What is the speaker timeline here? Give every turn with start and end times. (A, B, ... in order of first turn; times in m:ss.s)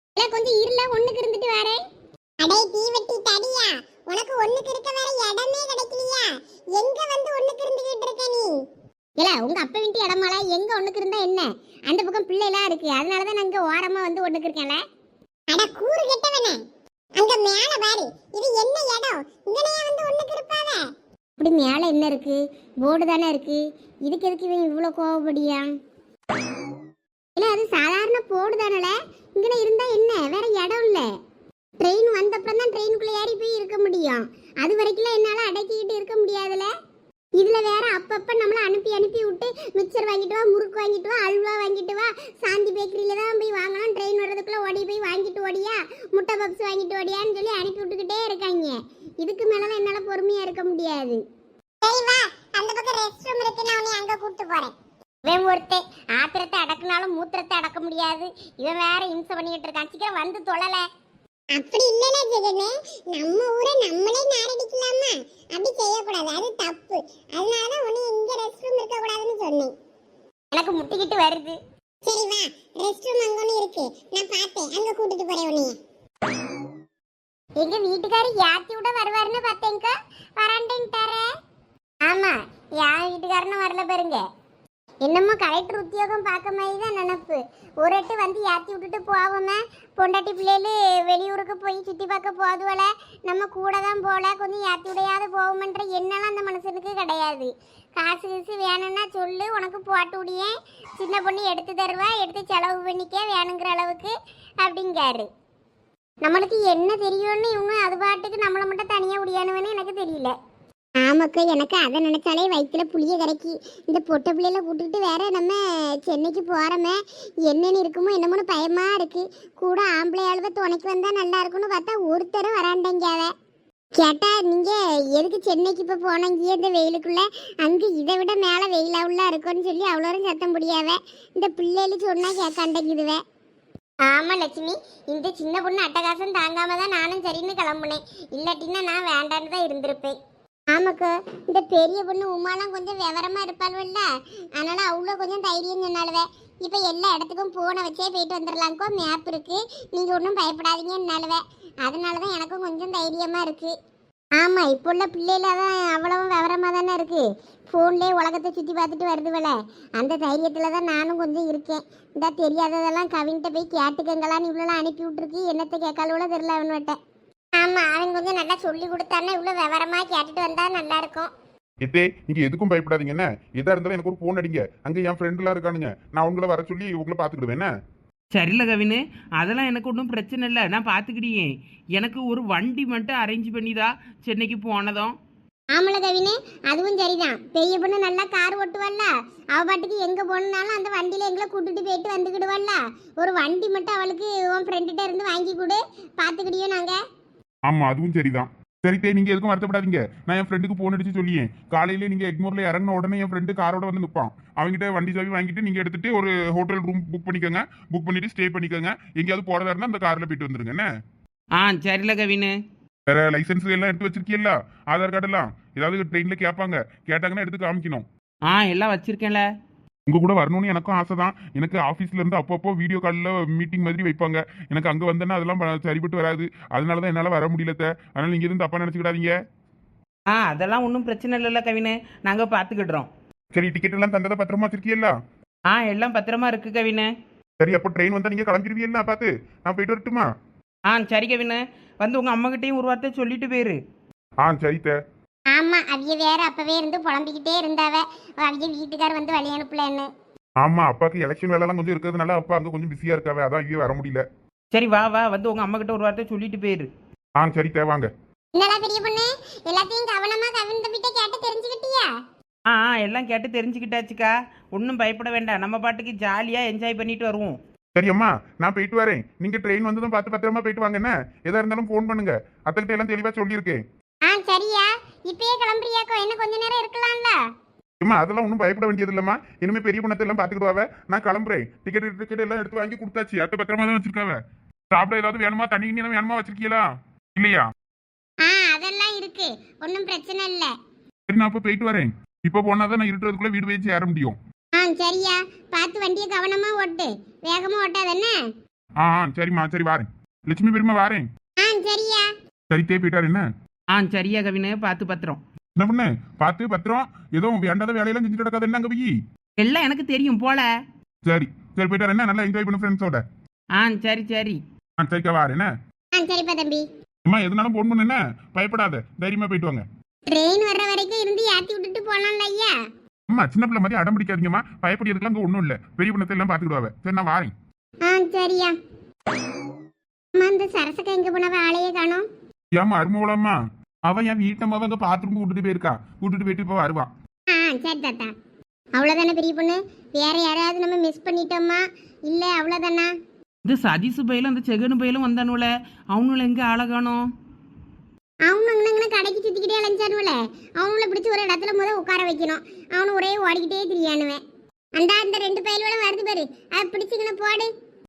0:00.2-0:01.8 A
0:02.4-0:08.5 A
0:09.2-0:14.8 A
0:15.5-0:16.6 A
0:17.2-0:20.8 A
0:21.4-0:25.7 A
0:27.4-0:31.1 A
0:31.8-0:36.7 A
0:37.4-0:51.2 A
0:51.8-0:54.7 A
0:55.3-1:00.8 A
1:01.5-1:09.7 A
1:10.5-1:15.7 A
1:17.6-1:21.3 A
1:22.1-1:24.2 A
1:25.0-1:45.3 A
1:46.2-1:50.3 A
1:51.0-2:03.3 A
2:04.0-2:13.2 A
2:14.0-2:20.1 A
2:20.7-2:24.1 A
2:24.6-2:33.7 A
2:34.4-2:47.0 A
2:47.6-2:51.3 A
2:51.8-2:57.7 B
2:58.3-3:05.1 C
3:05.7-3:17.0 A
3:17.7-3:30.9 B
3:31.6-3:32.5 C
3:33.1-3:38.1 B
3:38.5-3:39.4 C
3:40.1-3:49.3 B
3:50.3-3:53.1 C
3:53.5-3:55.1 B
3:55.7-3:57.1 C
3:57.6-4:00.3 B
4:00.9-4:03.8 C
4:04.4-4:05.0 B
4:05.5-4:10.1 A
4:10.6-4:14.2 B
4:14.7-4:16.9 C
4:17.4-4:18.1 B
4:18.6-4:22.1 A
4:22.7-4:27.5 C
4:28.0-4:33.8 B
4:34.3-4:37.4 A
4:38.0-4:44.4 B
4:44.9-4:46.8 B
4:47.4-4:47.6 B
4:48.4-4:50.7 A
4:51.3-4:54.4 B
4:54.8-4:58.4 A
4:59.0-5:01.3 B
5:01.6-5:02.3 A
5:02.7-5:03.5 B
5:03.9-5:05.4 C
5:05.8-5:09.1 B
5:09.6-5:10.7 C
5:11.2-5:13.2 B
5:13.8-5:14.6 C
5:15.0-5:15.7 B
5:16.2-5:16.8 A
5:17.3-5:19.8 B
5:20.3-5:22.7 A
5:23.3-5:27.5 B
5:28.0-5:28.8 A
5:30.4-5:32.3 A
5:32.7-5:37.1 B
5:37.5-5:38.3 A
5:39.0-5:43.1 A
5:43.7-5:47.2 C
5:48.5-5:54.4 A
5:55.0-5:57.7 A